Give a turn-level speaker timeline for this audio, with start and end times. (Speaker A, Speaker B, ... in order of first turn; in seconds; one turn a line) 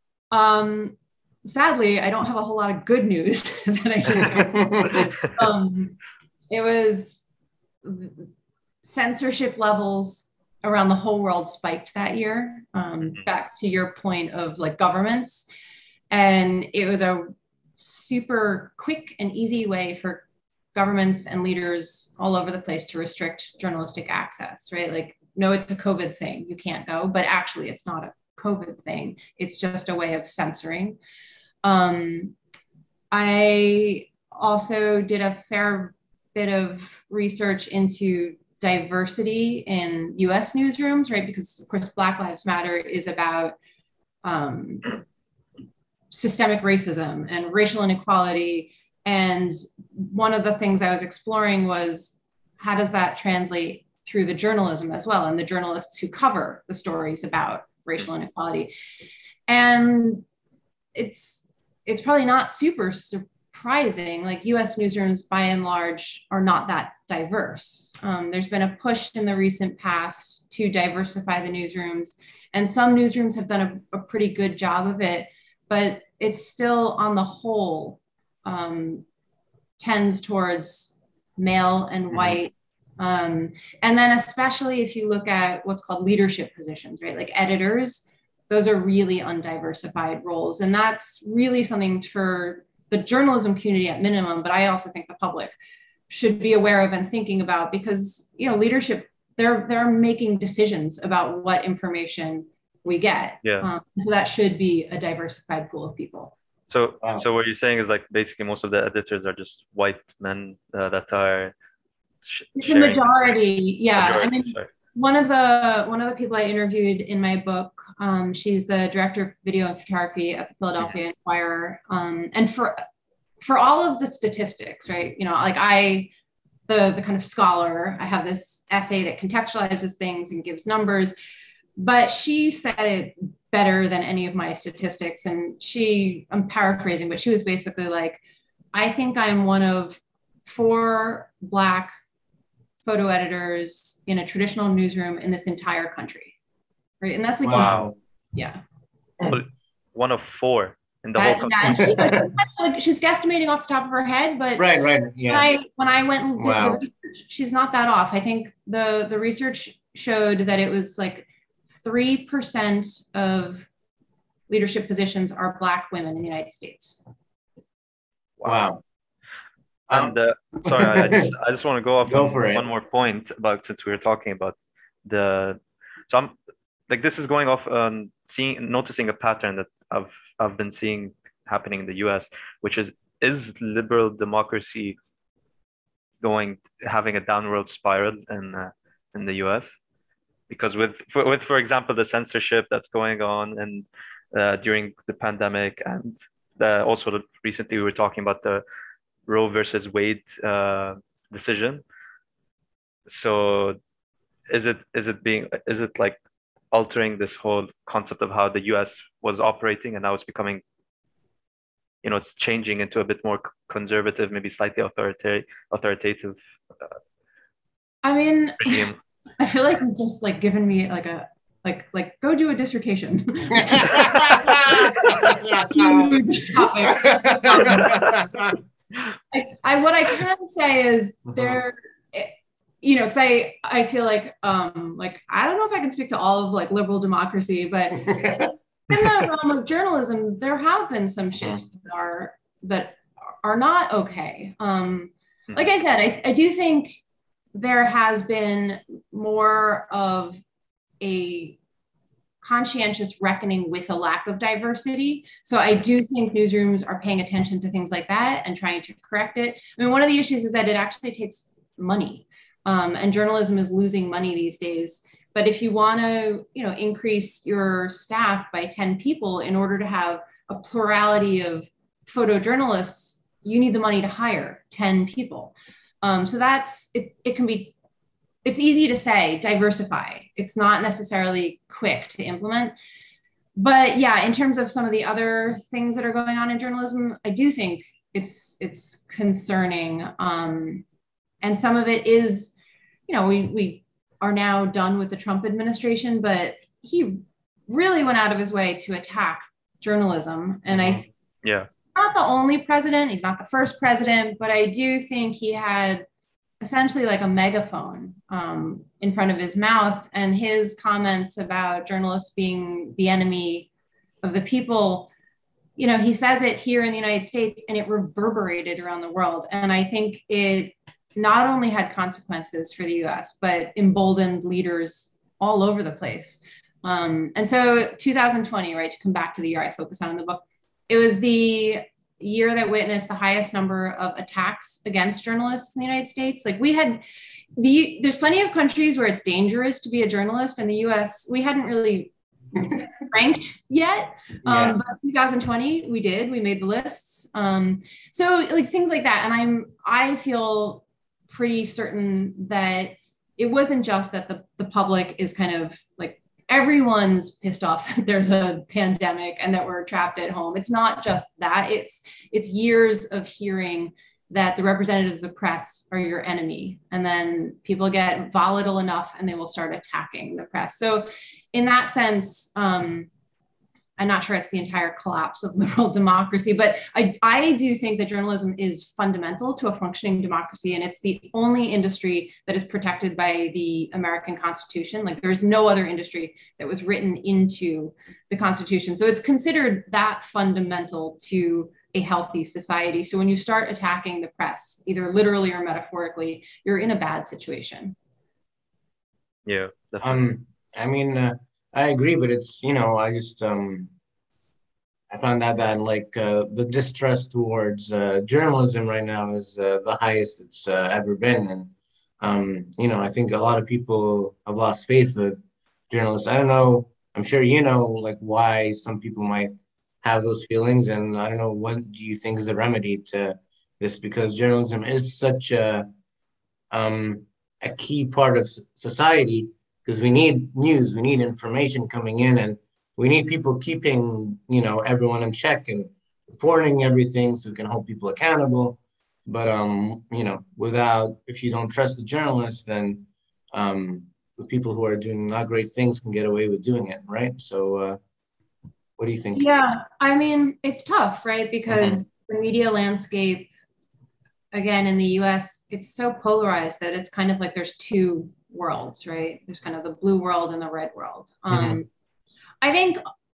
Speaker A: 0.3-6.0
Speaker B: 4.2-5.1
Speaker A: 6.5-7.2
Speaker A: 7.8-8.3
Speaker A: 8.8-15.5
Speaker A: 16.1-31.0
Speaker A: 31.6-32.3
Speaker A: 33.1-43.5
Speaker A: 44.2-44.9
Speaker A: 46.1-58.7
Speaker A: 59.5-60.2
Speaker A: 60.9-79.0
Speaker A: 79.8-95.5
Speaker B: 82.1-82.4
Speaker A: 96.1-106.3
Speaker C: 106.7-111.5
Speaker C: 112.2-113.3
Speaker A: 112.6-122.8
Speaker C: 113.9-114.7
Speaker A: 123.4-126.1
Speaker A: 126.7-131.1
Speaker A: 131.8-138.2
Speaker A: 138.7-141.9
Speaker A: 142.8-146.3
Speaker A: 147.0-148.6
Speaker B: 147.4-147.9
Speaker C: 147.5-147.9
Speaker C: 149.2-152.0
Speaker A: 151.2-154.6
Speaker B: 151.6-152.3
Speaker B: 154.6-155.5
Speaker A: 155.3-161.3
Speaker B: 156.4-156.8
Speaker A: 161.8-163.7
Speaker A: 164.5-167.0
Speaker C: 168.4-168.7
Speaker B: 168.4-168.8
Speaker B: 169.9-171.3
Speaker C: 169.9-176.3
Speaker B: 172.1-172.6
Speaker C: 176.9-185.0
Speaker C: 186.2-189.8
Speaker C: 190.5-198.6
Speaker C: 199.3-201.8
Speaker C: 203.1-203.8
Speaker C: 204.5-206.2
Speaker C: 206.7-210.6
Speaker C: 212.0-216.9
Speaker A: 218.0-228.0
Speaker C: 218.6-219.0
Speaker B: 223.5-226.2
Speaker B: 226.8-228.6
Speaker C: 227.8-228.1
Speaker A: 229.3-238.2
Speaker B: 238.0-238.5
Speaker A: 238.9-247.0
Speaker A: 247.5-250.4
Speaker A: 251.0-251.6
Speaker A: 252.4-277.7
Speaker A: 278.4-282.7
Speaker A: 283.6-290.8
Speaker A: 291.4-292.5
Speaker A: 293.1-301.0
Speaker B: 300.7-301.0
Speaker C: 301.4-301.7
Speaker A: 301.9-306.1
Speaker A: 306.6-313.7
Speaker A: 314.2-315.1
Speaker A: 315.8-337.0
Speaker A: 337.6-342.1
Speaker A: 343.1-373.1
Speaker B: 344.4-344.8
Speaker A: 374.0-397.9
Speaker C: 399.4-400.2
Speaker B: 400.0-403.9
Speaker B: 405.1-415.4
Speaker B: 415.9-425.9
Speaker B: 426.7-448.0
Speaker B: 449.0-449.5
Speaker A: 449.3-453.5
Speaker B: 451.7-452.0
Speaker A: 454.5-461.9
Speaker B: 461.5-461.8
Speaker A: 462.6-463.0